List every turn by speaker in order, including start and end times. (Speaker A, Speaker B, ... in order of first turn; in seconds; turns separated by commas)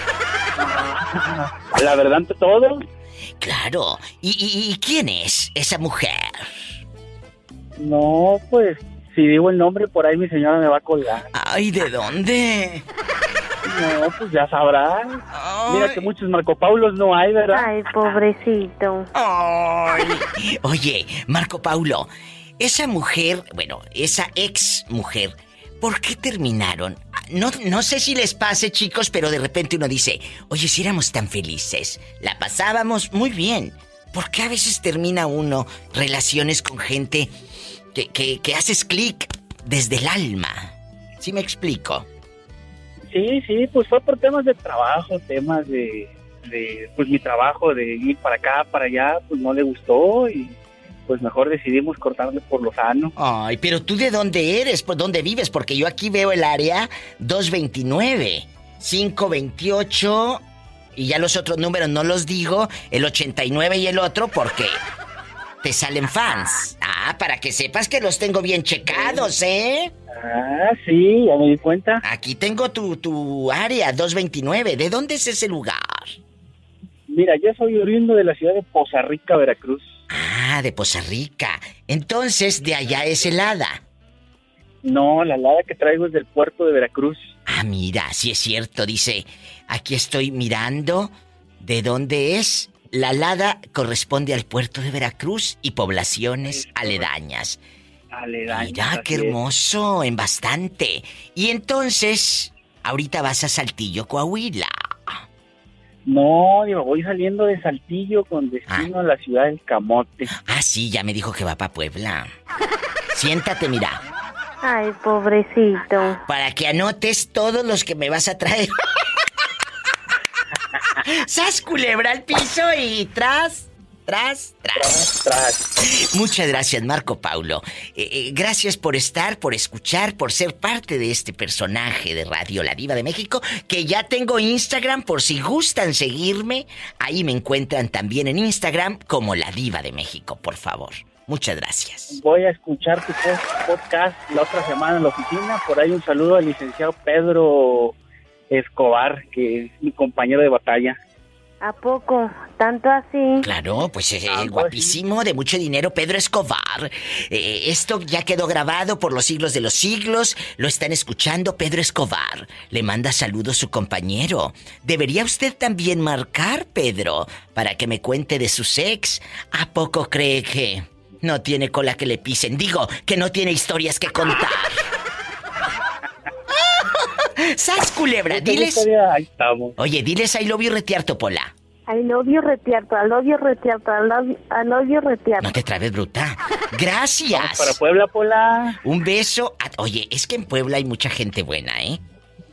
Speaker A: 0.6-2.8, Speaker B: 3.4-6.7, Speaker A: 7.8-11.3, Speaker B: 11.3-12.8, Speaker A: 13.6-17.7, Speaker B: 15.3-16.1, Speaker C: 17.5-19.1, Speaker B: 19.1-22.1, Speaker B: 22.6-37.3, Speaker B: 37.9-42.1, Speaker A: 43.1-50.6, Speaker A: 51.1-53.1, Speaker B: 53.2-60.4, Speaker B: 61.0-64.8, Speaker B: 65.6-69.9, Speaker A: 68.9-69.3, Speaker A: 70.1-72.0, Speaker B: 72.0-76.2, Speaker A: 77.1-80.0, Speaker B: 80.1-83.8, Speaker A: 84.8-87.3, Speaker B: 87.5-97.6, Speaker A: 96.5-97.1, Speaker A: 98.1-99.4, Speaker B: 98.5-105.2, Speaker A: 106.0-110.3, Speaker B: 110.3-112.3, Speaker B: 113.1-114.0, Speaker C: 114.6-116.2, Speaker B: 116.3-118.8, Speaker B: 121.0-125.0, Speaker A: 124.8-125.7, Speaker B: 125.8-142.2, Speaker A: 142.1-148.0, Speaker A: 148.5-151.0, Speaker C: 151.6-153.5, Speaker B: 153.4-174.8, Speaker A: 154.3-155.0, Speaker B: 176.7-178.9, Speaker A: 178.3-179.8, Speaker B: 179.8-181.5, Speaker C: 181.9-185.6, Speaker B: 185.4-187.8, Speaker A: 187.3-188.8, Speaker B: 188.8-192.0